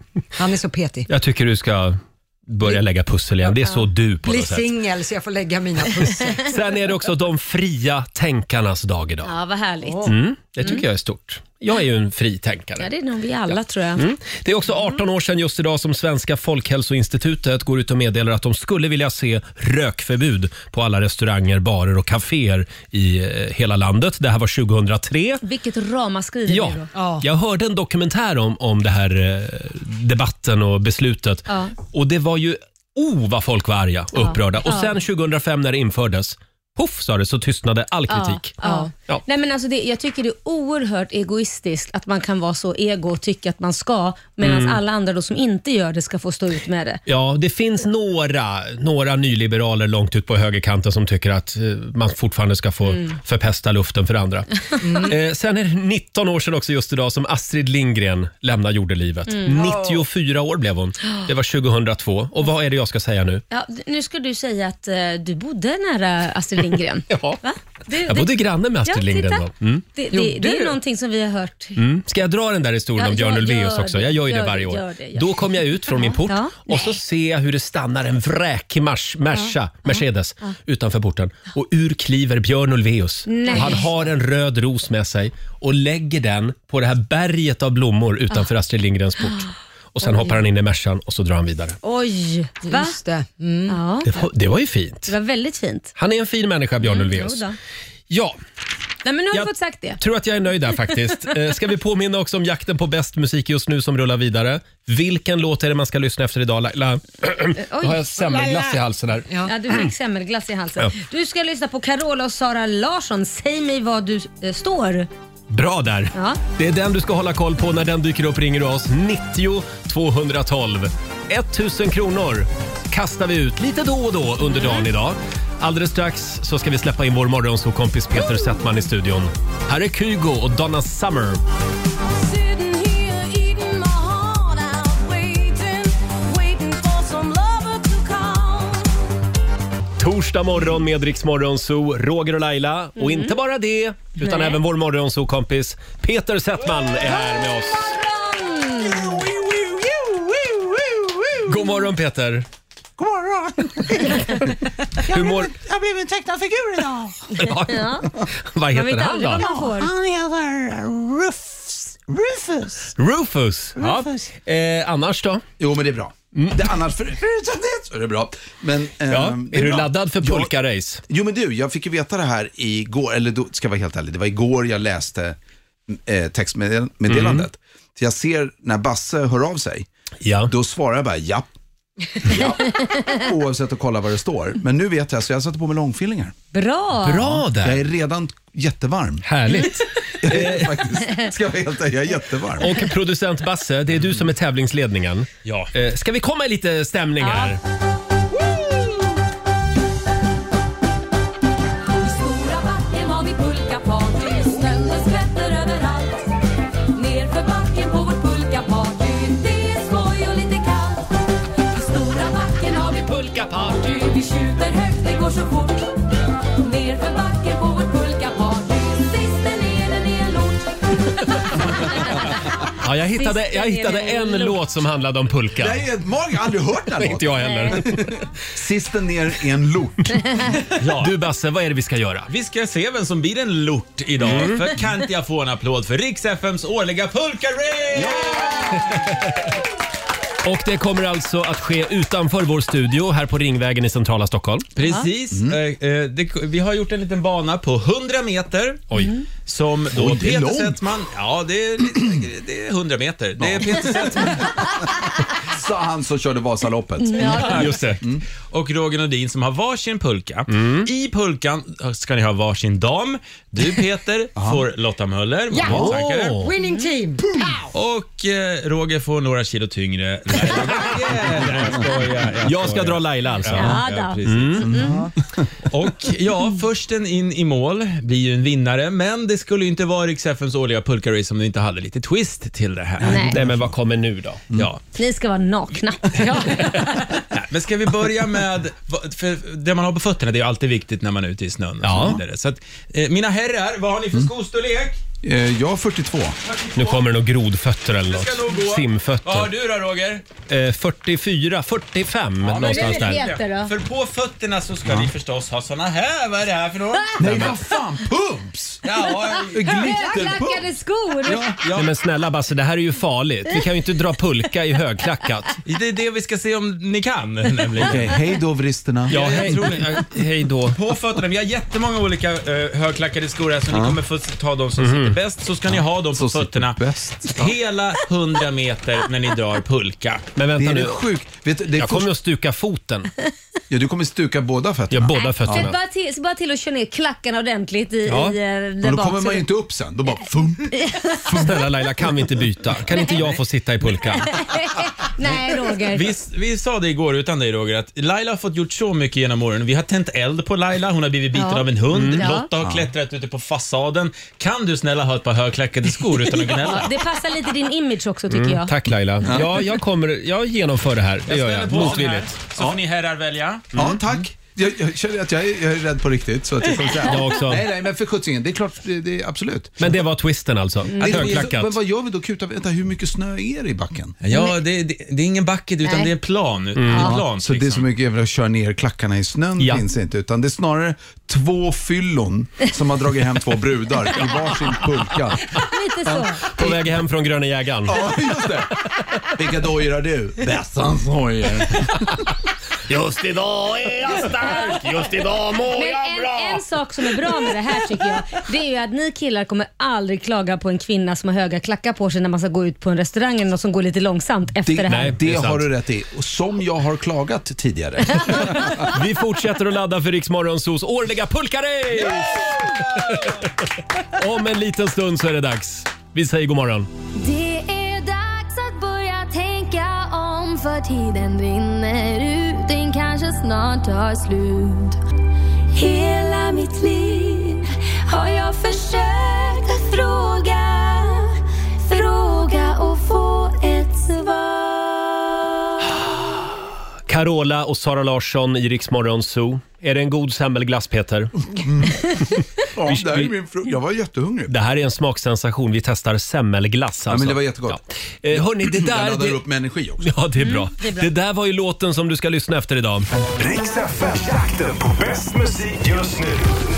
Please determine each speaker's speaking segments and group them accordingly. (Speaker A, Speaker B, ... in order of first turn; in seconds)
Speaker A: 0.3-1.1, 4.2-6.6, 9.9-10.1, 26.9-27.2, 38.6-38.9, 54.8-55.1, 70.1-70.8, 83.5-83.8, 92.6-93.8, 265.5-267.4, 286.2-286.7
Speaker B: 1.1-4.7, 6.4-9.3, 10.0-12.9, 13.9-25.4, 26.5-39.2, 44.4-44.8, 47.0-63.4, 67.1-67.4, 67.9-69.8, 71.8-91.8, 94.0-95.1, 95.9-97.4, 98.1-98.4, 99.3-109.9, 115.5-131.4, 140.0-148.0, 151.4-152.4, 155.1-155.5, 157.3-159.5, 162.9-165.4, 166.3-166.7, 169.1-171.0, 177.1-177.5, 180.2-180.5, 187.0-187.8, 189.2-190.8, 192.6-197.6, 213.1-213.9, 222.7-225.9, 227.0-228.2, 230.9-232.3, 234.2-234.7, 238.9-239.2, 240.4-244.7, 248.9-249.2, 257.2-258.0, 260.5-260.9, 265.6-266.5, 270.5-271.7, 272.4-274.8, 283.1-284.4, 291.8-292.2, 296.7-299.5, 300.5-303.2, 311.7-315.5, 319.1-320.8, 324.8-325.2, 330.4-331.1, 331.8-333.1, 334.9-335.8, 338.1-338.4, 341.3-344.3, 351.9-352.3, 358.3-362.3, 367.0-367.7, 369.8-371.8, 376.8-377.2, 379.6-379.8, 386.5-388.5, 392.9-396.6, 397.2-397.5, 404.9-405.7, 408.7-413.5, 414.0-416.9, 437.1-441.3, 442.8-443.3, 444.5-449.4, 450.0-453.1
Speaker C: 9.2-10.8, 12.8-14.1, 25.4-26.9, 31.5-31.7, 34.1-34.9, 38.1-47.0, 59.3-60.0, 63.5-71.8, 73.0-76.9, 79.9-80.5, 83.3-83.9, 90.0-90.3, 91.8-93.0, 93.7-94.3, 95.1-95.9, 96.8-97.5, 99.0-100.0, 107.5-108.6, 109.4-115.1, 116.1-116.4, 143.0-143.3, 144.2-144.6, 147.9-149.1, 157.5-158.1, 158.7-159.9, 186.5-187.4, 222.0-222.2, 223.1-224.6, 227.4-227.8, 257.0-257.8, 266.6-266.9, 273.5-274.2, 283.0-283.4, 284.9-286.8, 302.6-303.7, 309.6-311.4, 335.1-339.4, 340.8-341.6, 344.2-346.1, 351.3-352.5, 356.6-358.7, 375.8-376.1, 385.5-386.5, 395.7-405.1, 417.2-417.9, 450.4-451.1
Speaker D: 132.0-138.9, 201.9-206.3, 206.9-211.1, 211.7-216.0, 216.6-220.7, 417.3-425.0, 425.7-435.3
Speaker E: 153.0-153.5, 155.6-157.1, 159.9-161.3, 162.1-162.9
Speaker F: 165.6-170.5, 171.1-175.4, 175.9-179.9, 180.5-181.5, 182.2-186.3, 187.5-189.3, 190.2-192.8, 225.6-230.2, 237.9-238.8, 245.3-245.6, 249.9-250.8, 253.4-258.2, 264.4-264.6, 274.6-275.1, 295.2-296.4, 307.2-308.8, 309.5-310.7, 311.2-311.7, 317.8-319.5, 323.7-324.0, 325.7-327.6, 330.6-332.1, 333.7-335.7, 338.8-341.6, 352.6-352.9, 359.2-359.7, 363.7-369.9, 371.0-374.1, 376.9-385.6, 386.1-386.8, 387.9-388.8, 389.3-392.3, 404.6-408.9, 441.5-442.2, 442.7-444.5, 447.1-447.8, 448.3-450.1
Speaker G: 195.4-195.7, 230.8-231.2, 232.3-239.0, 244.8-248.9, 249.4-254.6, 257.2-266.4, 267.7-275.1, 275.6-283.6, 284.5-284.8, 287.3-295.0, 296.4-297.1, 298.1-300.2, 302.4-307.6, 308.8-309.9, 311.3-311.9, 315.6-318.2, 319.1-320.1, 320.7-330.2, 345.9-356.9, 361.3-363.8, 371.0-371.4, 374.2-377.9
Speaker H: 453.4-456.6